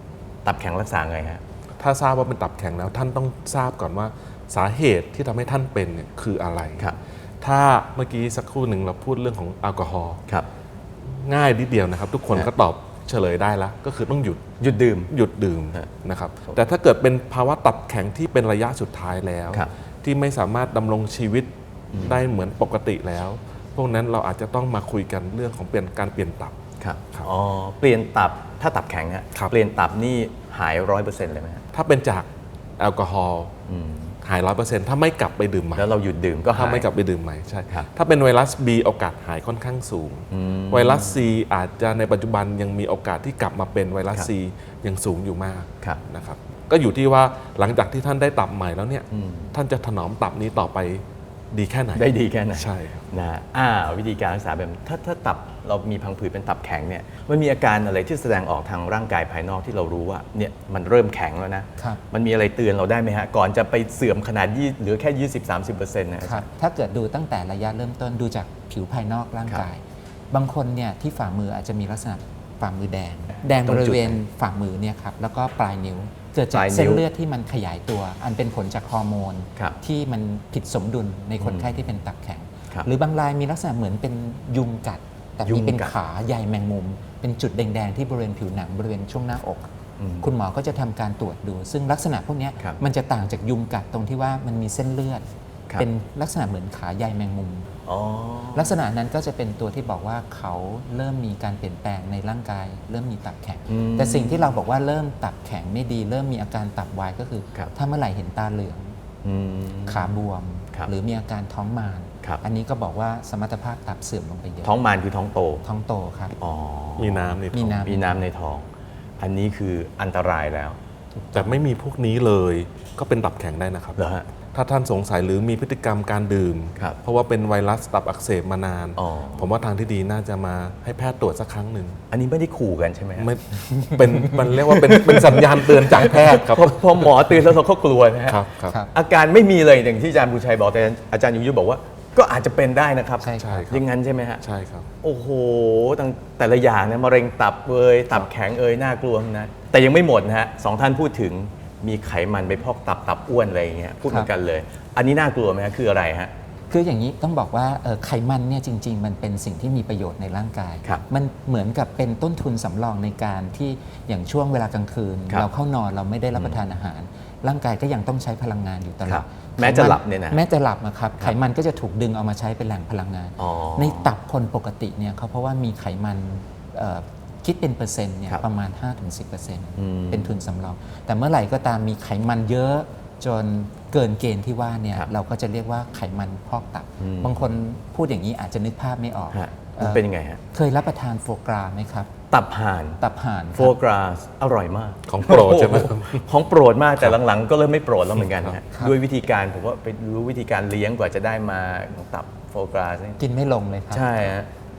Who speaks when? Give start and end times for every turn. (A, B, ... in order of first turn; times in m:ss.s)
0:00.4-0:01.4 A
0:01.8-0:10.2 B
0:11.1-0:14.4 B
0:14.6-0:15.1 A
0:15.1-0:26.6 B
0:26.8-0:31.6 A
0:31.7-0:32.3 B
0:32.8-0:33.5 B
0:33.7-0:34.2 A
0:34.2-0:35.9 B
0:35.8-0:36.9 A
0:36.5-0:53.1 B
0:40.3-0:41.3 A
0:49.1-0:49.5 A
0:52.0-1:06.5 A
1:01.8-1:02.0 C
1:06.2-1:29.7 C
1:13.7-1:14.2 A
1:16.5-1:17.0 A
1:21.4-1:21.8 A
1:25.4-1:25.9 A
1:30.0-1:30.3 A
1:30.2-1:35.2 C
1:35.8-1:37.7 C
1:37.9-1:38.8 A
1:38.6-1:49.0 C
1:43.7-1:44.6 A
1:49.2-1:50.1 A
1:49.9-1:54.7 C
1:54.6-1:55.6 A
1:55.6-1:56.4 C
1:56.4-1:58.7 A
1:57.0-1:57.9 B
1:57.5-1:58.2 C
1:59.2-2:01.6 A
2:01.3-2:04.0 B
2:04.0-2:04.3 A
2:04.5-2:12.0 B
2:09.0-2:09.5 A
2:12.1-2:13.3 A
2:13.2-2:17.1 B
2:14.1-2:24.4 A
2:18.3-2:18.8 B
2:23.2-2:23.6 C
2:23.4-2:23.9 B
2:24.4-2:24.9 B
2:25.0-2:36.3 A
2:36.7-3:12.1 C
2:46.4-2:46.6 A
2:49.1-2:50.4 A
2:53.4-2:54.1 A
2:59.8-3:00.4 A
3:07.0-3:07.5 A
3:09.3-3:10.4 A
3:12.3-3:13.0 A
3:13.0-3:13.8 C
3:13.6-3:23.2 A
3:15.1-3:16.2 B
3:18.2-3:18.5 B
3:23.2-3:24.3 C
3:23.9-3:24.5 A